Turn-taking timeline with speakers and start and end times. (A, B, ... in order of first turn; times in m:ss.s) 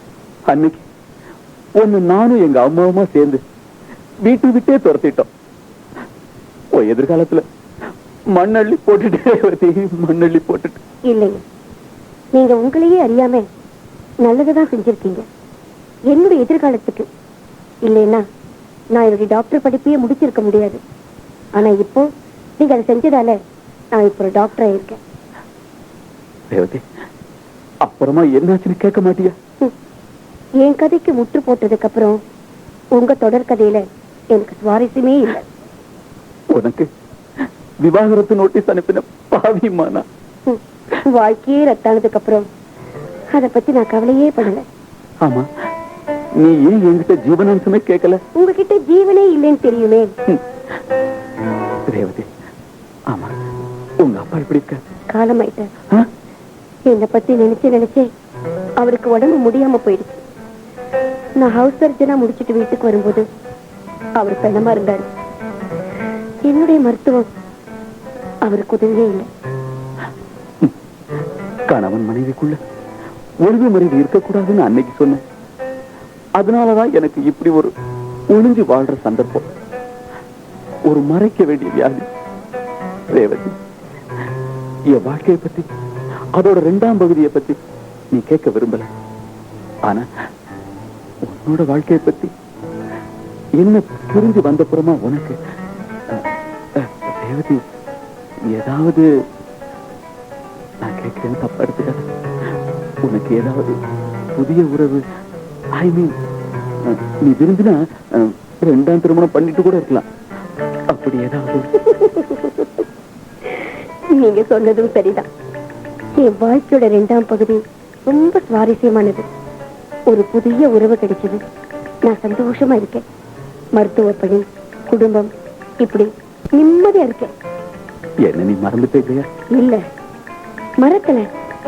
0:00.5-0:00.8 A
0:01.8-0:03.4 A
0:04.2-0:05.3 A
0:06.7-0:07.4 A
0:08.4-0:10.8 A
0:11.1-0:11.4 B
0:12.4-0:13.4 B
0:14.2-0:15.3 B
0:16.1-0:17.1 B
0:17.8-0:18.2 B
0:18.9-0:20.8 B
0:21.6-0:22.1 B
0:22.6-0:23.4 B
0:23.9-0:25.0 B
0:26.5-0:26.8 A
0:27.8-0:29.4 A
0:30.6-0:32.2 B
0:33.0-0:35.4 B
0:36.5-0:36.9 A
0:37.8-0:40.0 A
0:41.1-0:42.4 B
0:43.3-0:44.6 B
0:45.2-0:45.5 A
0:46.4-0:48.2 A
0:48.4-0:50.1 B
0:51.9-0:52.3 A
0:53.1-0:53.4 A
0:54.0-0:54.8 A
0:55.1-0:55.7 B
0:56.9-0:58.1 B
0:58.8-1:00.2 B
1:01.4-1:03.2 B
1:04.2-1:05.1 B
1:06.4-1:07.3 B
1:08.4-1:09.3 B
1:11.7-1:12.6 A
1:13.4-1:15.2 A
1:16.4-1:17.7 A
1:18.3-1:19.5 A
1:20.9-1:22.1 A
1:23.1-1:23.6 A
1:24.9-1:25.7 A
1:26.3-1:27.6 A
1:28.1-1:28.9 A
1:31.2-1:32.3 A
1:33.6-1:35.4 A
1:36.1-1:37.6 A
1:38.5-1:39.1 A
1:40.8-1:42.1 A
1:43.0-1:43.8 A
1:44.4-1:45.0 A
1:45.8-1:46.2 A
1:46.8-1:50.1 A
1:50.9-1:51.7 A
1:51.9-1:52.7 B
1:54.2-1:55.3 B
1:56.2-1:59.3 B
2:00.1-2:01.4 B
2:02.1-2:03.0 B
2:03.8-2:05.3 B
2:05.8-2:07.3 B
2:08.2-2:09.3 A
2:09.5-2:09.8 B
2:10.8-2:11.3 B